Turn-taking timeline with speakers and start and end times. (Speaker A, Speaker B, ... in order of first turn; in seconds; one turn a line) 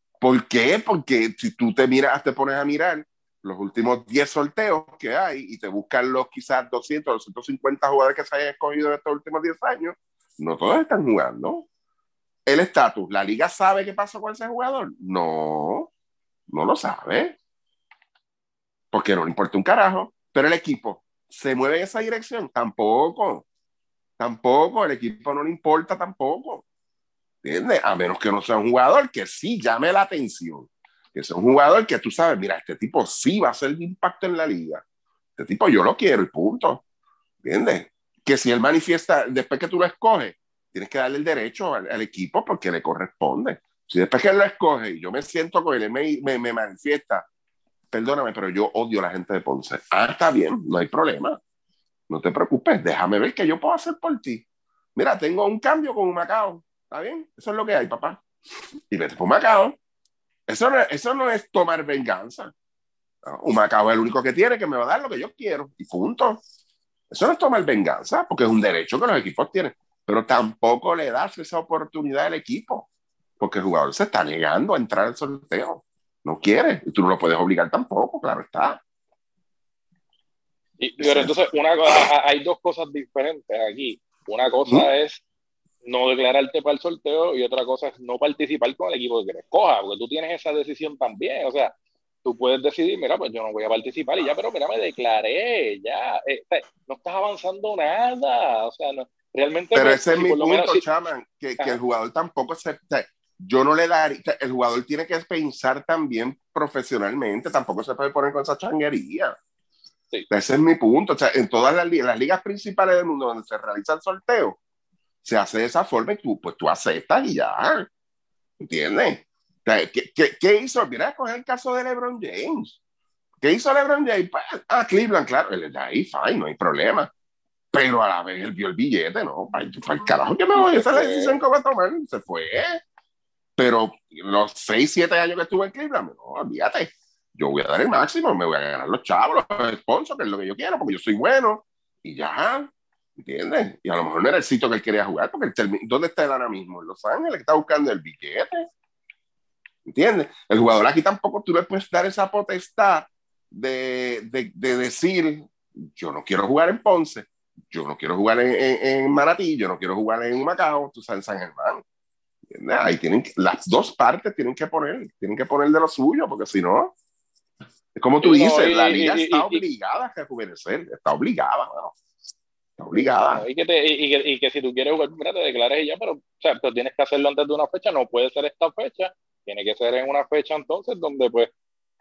Speaker A: 0.2-11.7
Speaker A: 12.5-15.9
Speaker A: 16.5-17.4
Speaker A: 18.9-23.4
Speaker A: 24.2-26.6
Speaker A: 27.4-34.8
Speaker A: 35.4-36.8
Speaker A: 37.4-47.3
Speaker A: 47.9-51.4
Speaker A: 52.1-58.2
Speaker A: 58.9-59.8
Speaker A: 60.5-62.5
Speaker A: 63.2-66.4
Speaker A: 67.1-72.9
Speaker A: 73.4-78.8
Speaker B: 80.8-85.2
Speaker A: 81.0-81.4
Speaker B: 85.8-91.7
Speaker B: 92.2-100.8
Speaker A: 99.7-109.3
Speaker A: 110.3-114.6
Speaker A: 115.2-117.9
Speaker A: 118.6-122.8
Speaker A: 123.4-127.1
Speaker A: 127.7-132.8
Speaker B: 130.5-131.4
Speaker A: 133.6-148.6
Speaker A: 149.9-161.8
Speaker A: 162.5-166.9
Speaker A: 168.0-172.0
Speaker B: 168.2-169.6
Speaker A: 172.8-173.4
Speaker B: 172.9-181.5